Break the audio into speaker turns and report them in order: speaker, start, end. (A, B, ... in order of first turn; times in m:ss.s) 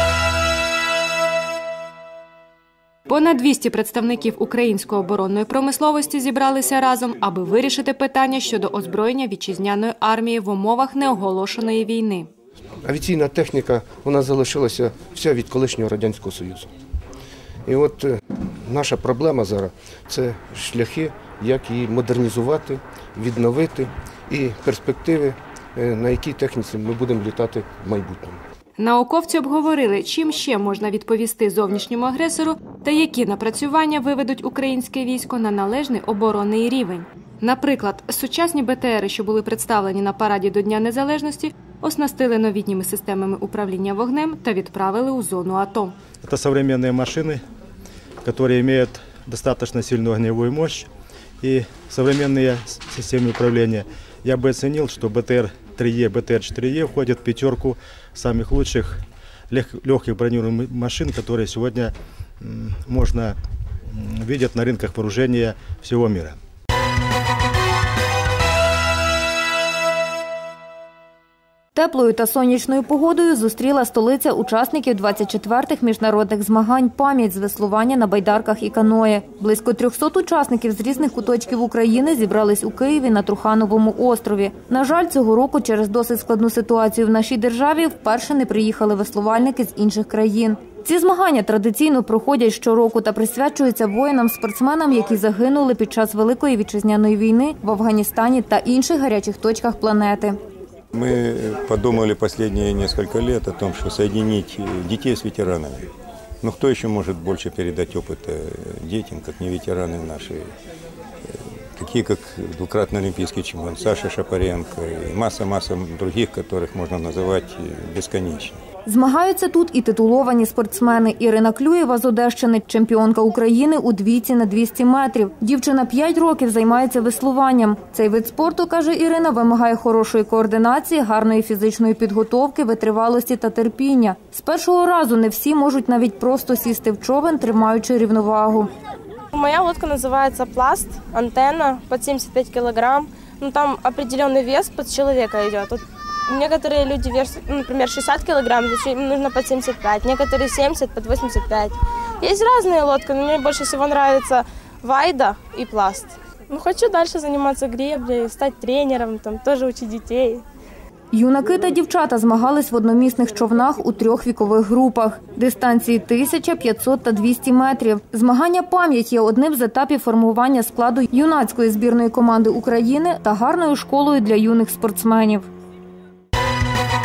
0:03.1-0:12.3 A
0:12.8-0:16.7 B
0:17.7-0:18.1 B
0:18.6-0:28.4 B
0:28.8-0:45.9 A
0:46.2-0:47.4 C
0:48.2-0:50.8 C
0:51.4-1:03.4 C
1:03.9-1:06.4 C
1:11.8-1:40.4 D
1:40.9-1:45.8 E
1:46.4-1:50.5 E
1:51.2-1:58.6 E
1:58.8-2:18.7 D
2:19.3-2:40.4 F
2:41.1-2:55.5 D